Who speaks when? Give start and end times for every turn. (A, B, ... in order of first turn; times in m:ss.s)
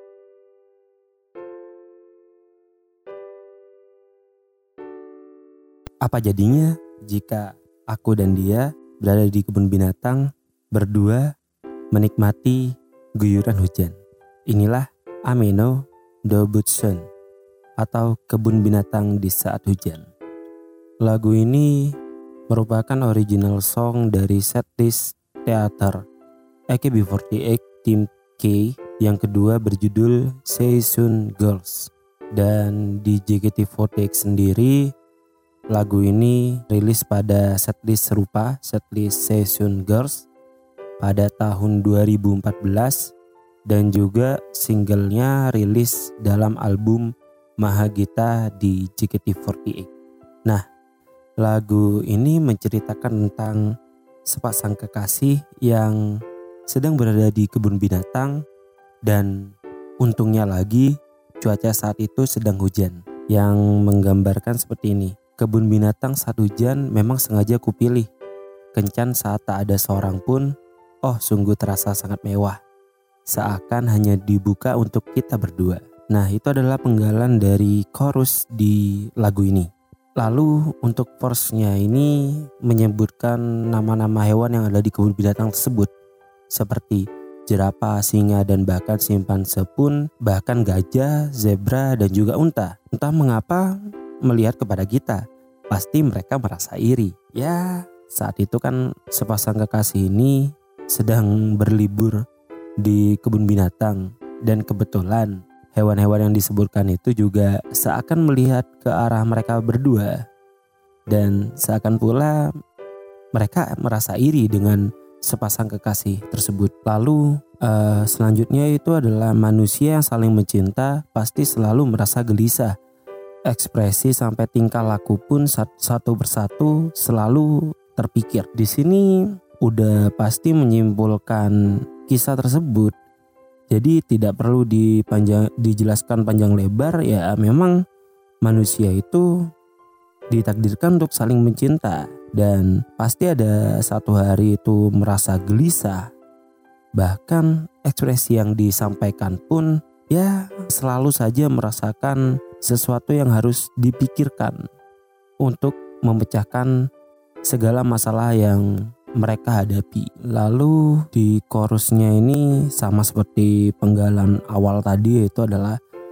0:06.0-0:11.3 A
0:11.9-0:14.0 A
0:14.5-0:17.0 A
0:17.8-0:20.1 A
0:21.0-0:21.9 A
0:22.5-0:26.0 A
0:26.7-0:34.9 A
0:35.7-0:40.2 A
0:41.0-0:43.1 A
0:43.7-0:47.1 A
0:47.6-0:49.9 A
0:51.4-0:53.6 A
0:54.3-0:56.0 A
0:56.7-0:58.4 A
0:59.0-1:08.1 A
1:08.7-1:10.5 A
1:11.0-1:12.6 A
1:13.3-1:25.9 A
1:26.5-1:33.7 A
1:34.2-1:42.2 A
1:42.8-1:50.2 A
1:51.1-1:52.5 A
1:53.3-2:02.7 A
2:03.5-2:09.1 A
2:09.6-2:11.5 A
2:12.0-2:12.9 A
2:13.7-2:17.8 A
2:18.4-2:19.3 A
2:20.3-2:26.0 A
2:27.0-2:34.6 A
2:35.4-2:36.7 A
2:37.5-2:45.8 A